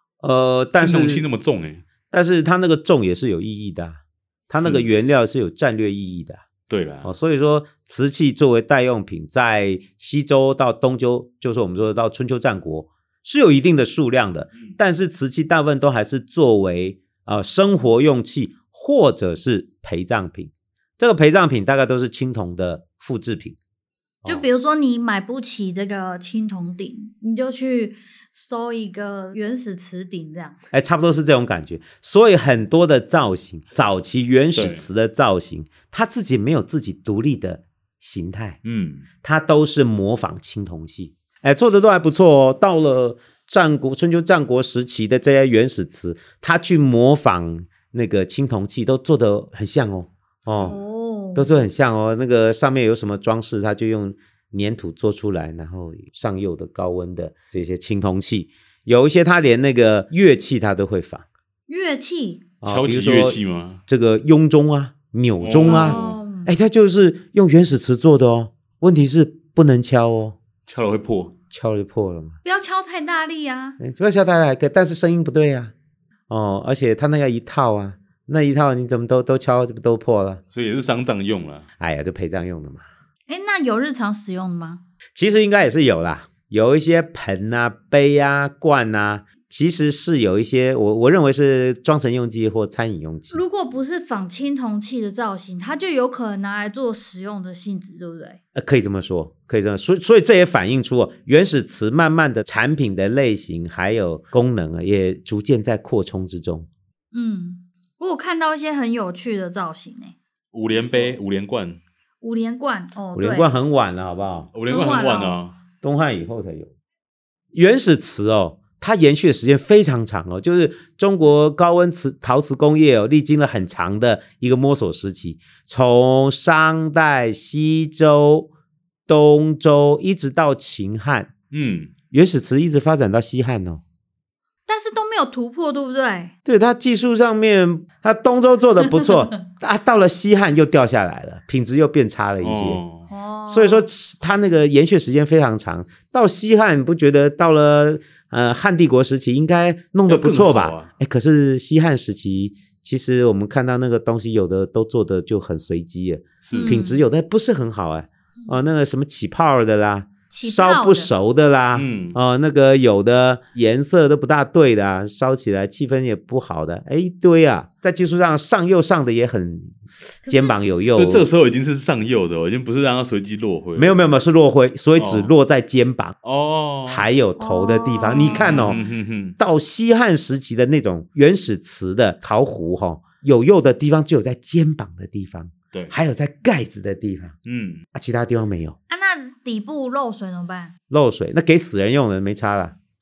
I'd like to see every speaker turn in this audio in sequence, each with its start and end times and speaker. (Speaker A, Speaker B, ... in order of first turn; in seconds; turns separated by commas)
Speaker A: 0.2-1.2, Speaker B: 0.8-1.8, Speaker A: 2.1-6.4, Speaker B: 4.5-4.8, Speaker B: 6.7-7.1, Speaker A: 7.0-23.6, Speaker C: 24.2-30.6, Speaker A: 30.7-38.6, Speaker B: 34.5-34.9, Speaker B: 38.6-39.0, Speaker A: 39.2-50.8, Speaker B: 50.5-50.8, Speaker C: 50.5-51.6, Speaker A: 51.4-61.2, Speaker C: 61.7-62.5, Speaker A: 62.6-70.4, Speaker B: 62.6-63.8, Speaker B: 65.4-66.2, Speaker C: 65.7-66.5, Speaker B: 70.7-71.3, Speaker A: 71.5-72.4, Speaker C: 72.4-73.8, Speaker A: 73.8-75.7, Speaker A: 76.3-80.4, Speaker B: 80.5-81.7, Speaker A: 81.8-82.8, Speaker C: 83.3-84.8, Speaker A: 85.1-93.4, Speaker C: 93.3-98.4, Speaker A: 98.5-106.7, Speaker C: 107.1-110.2, Speaker B: 110.5-111.8, Speaker A: 110.9-111.1, Speaker C: 112.2-113.5, Speaker A: 113.1-114.5, Speaker B: 114.5-115.5, Speaker C: 114.7-115.4, Speaker A: 115.8-116.7, Speaker A: 117.5-128.5, Speaker A: 129.1-131.3, Speaker B: 131.5-131.9, Speaker A: 132.1-133.8, Speaker C: 134.7-136.3, Speaker A: 136.4-142.8, Speaker B: 142.4-143.1, Speaker C: 143.1-143.9, Speaker A: 143.5-171.3, Speaker B: 150.1-150.9, Speaker B: 156.4-156.8, Speaker C: 156.5-157.0, Speaker C: 160.3-161.1, Speaker B: 161.7-162.2, Speaker C: 170.2-170.7, Speaker B: 170.9-174.1, Speaker A: 173.8-176.2, Speaker B: 175.0-175.3, Speaker B: 176.2-177.1, Speaker A: 176.9-178.8, Speaker C: 177.4-178.7, Speaker B: 178.1-179.4, Speaker A: 179.4-187.4, Speaker B: 187.4-187.8, Speaker A: 187.9-188.8, Speaker C: 188.9-190.7, Speaker A: 190.9-192.8